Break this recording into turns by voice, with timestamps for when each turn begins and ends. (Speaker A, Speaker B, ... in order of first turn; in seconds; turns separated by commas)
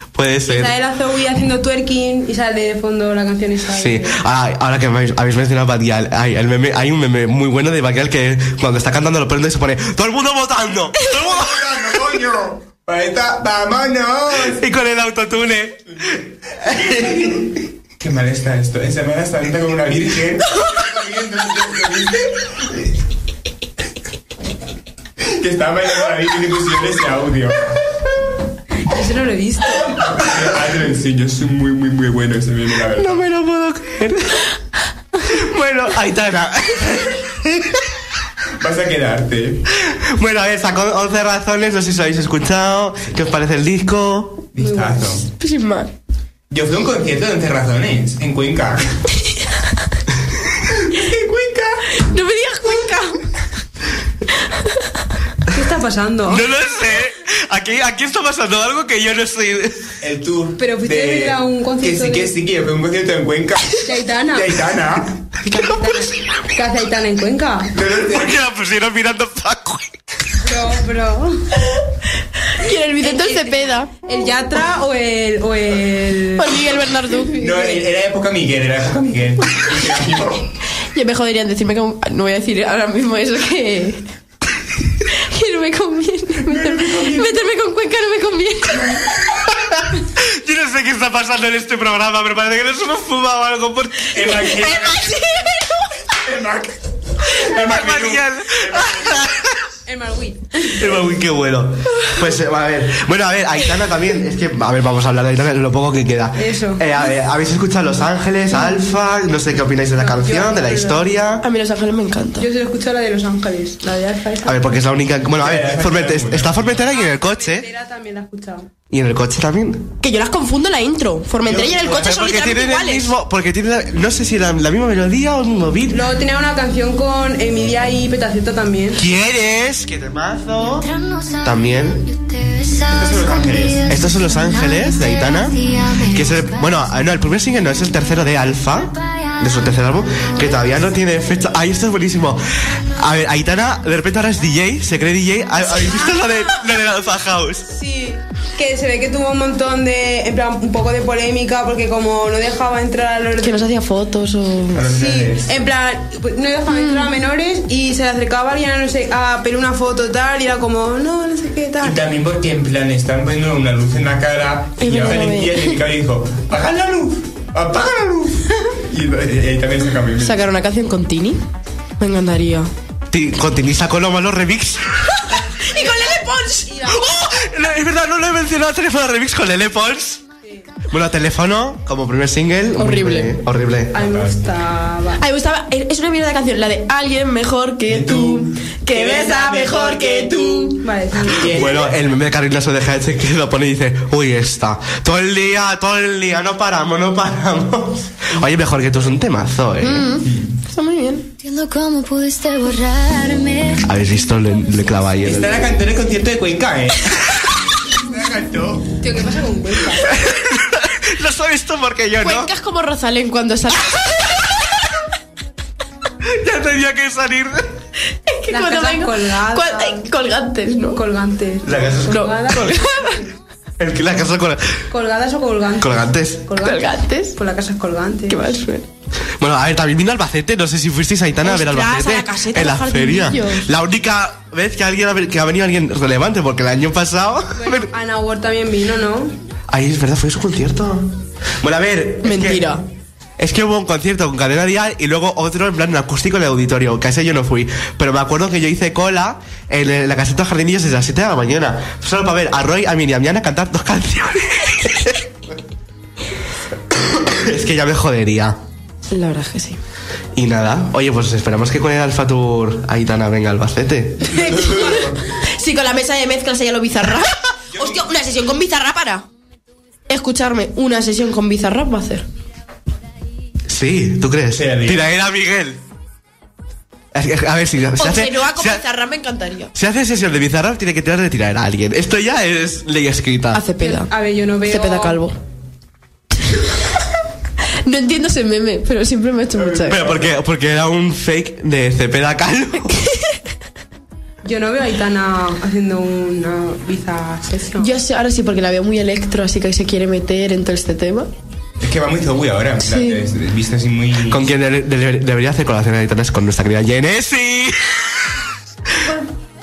Speaker A: 0.1-0.7, Speaker B: 0.5-4.2, Speaker A: 3.7-11.9, Speaker C: 11.0-14.6, Speaker A: 14.3-17.4, Speaker C: 16.1-22.9, Speaker C: 25.2-27.7, Speaker B: 28.8-30.2, Speaker C: 30.1-33.2, Speaker A: 33.0-34.4, Speaker A: 35.2-37.9, Speaker C: 38.6-39.6, Speaker A: 39.7-44.4, Speaker C: 44.5-45.3, Speaker B: 44.6-45.1, Speaker D: 45.4-45.9, Speaker C: 46.5-49.0, Speaker D: 49.2-49.6, Speaker C: 50.8-51.9, Speaker D: 51.9-53.3, Speaker D: 54.5-54.9, Speaker B: 55.5-56.5, Speaker A: 56.3-59.9, Speaker C: 60.0-65.2, Speaker B: 60.6-62.3, Speaker B: 63.8-64.5, Speaker B: 65.4-67.7, Speaker C: 67.7-68.4, Speaker A: 68.0-69.9, Speaker B: 70.4-71.5, Speaker D: 72.5-73.9, Speaker B: 73.0-77.8, Speaker D: 76.4-77.4, Speaker C: 77.3-80.5, Speaker D: 80.9-84.1, Speaker D: 85.1-89.3, Speaker C: 86.4-87.5, Speaker C: 88.8-89.1, Speaker A: 89.6-94.6, Speaker C: 94.1-95.5, Speaker D: 94.3-95.8, Speaker C: 96.1-99.3, Speaker A: 97.2-99.7, Speaker B: 99.8-100.8, Speaker A: 100.6-111.4, Speaker B: 106.3-107.1, Speaker B: 110.0-111.2, Speaker D: 111.4-112.5, Speaker B: 112.4-114.6, Speaker A: 114.5-117.7, Speaker C: 115.3-116.9, Speaker B: 116.9-118.7, Speaker A: 118.9-119.9, Speaker D: 120.0-123.1, Speaker A: 121.5-126.0, Speaker B: 125.9-129.0, Speaker A: 128.9-130.9, Speaker E: 130.6-137.1, Speaker A: 131.4-132.0, Speaker C: 132.9-133.9, Speaker A: 133.9-135.6, Speaker A: 136.1-147.7, Speaker E: 138.6-140.9, Speaker B: 147.7-153.7, Speaker D: 153.4-154.9, Speaker C: 154.7-155.6, Speaker B: 154.9-162.0, Speaker D: 156.7-157.1, Speaker C: 161.8-170.5, Speaker D: 164.8-165.8, Speaker D: 170.2-171.4, Speaker D: 172.0-172.7, Speaker A: 173.1-175.3, Speaker D: 175.3-176.8, Speaker B: 175.7-176.1, Speaker B: 176.7-177.3, Speaker A: 176.8-180.2, Speaker A: 180.9-184.0, Speaker D: 182.8-183.4, Speaker B: 183.9-185.2, Speaker C: 183.9-184.4, Speaker D: 185.2-190.8, Speaker C: 187.9-190.7, Speaker B: 190.8-191.7, Speaker C: 191.2-192.0, Speaker A: 191.5-200.1, Speaker D: 199.8-201.3, Speaker E: 201.4-205.2, Speaker A: 203.8-205.7, Speaker C: 205.2-209.0, Speaker B: 209.0-210.1, Speaker A: 210.0-212.5, Speaker D: 212.2-214.5, Speaker A: 216.2-217.7, Speaker D: 218.2-221.0, Speaker B: 218.5-220.1, Speaker B: 220.9-223.3, Speaker A: 221.6-222.7, Speaker D: 222.1-223.2, Speaker A: 223.8-224.8, Speaker B: 224.9-228.5, Speaker A: 225.8-226.5, Speaker D: 226.6-227.4, Speaker D: 228.3-228.8, Speaker A: 229.4-237.9, Speaker D: 231.4-233.7, Speaker B: 237.6-239.3, Speaker A: 239.7-242.7, Speaker D: 242.2-242.8, Speaker A: 243.4-255.3, Speaker A: 257.1-258.6, Speaker D: 259.1-259.8, Speaker A: 260.3-264.4, Speaker C: 264.3-265.2, Speaker D: 264.3-269.2, Speaker C: 267.7-268.1, Speaker D: 270.1-272.2, Speaker A: 273.7-275.8, Speaker C: 274.5-275.1, Speaker A: 277.1-278.8, Speaker D: 278.0-279.7, Speaker A: 279.7-283.6, Speaker D: 283.5-284.1, Speaker B: 283.8-285.2, Speaker D: 284.6-285.4, Speaker D: 287.8-290.1, Speaker C: 289.5-290.3, Speaker A: 289.9-293.0, Speaker B: 294.4-297.9, Speaker D: 297.7-301.3, Speaker C: 301.8-304.5, Speaker D: 302.8-303.2, Speaker A: 304.3-308.4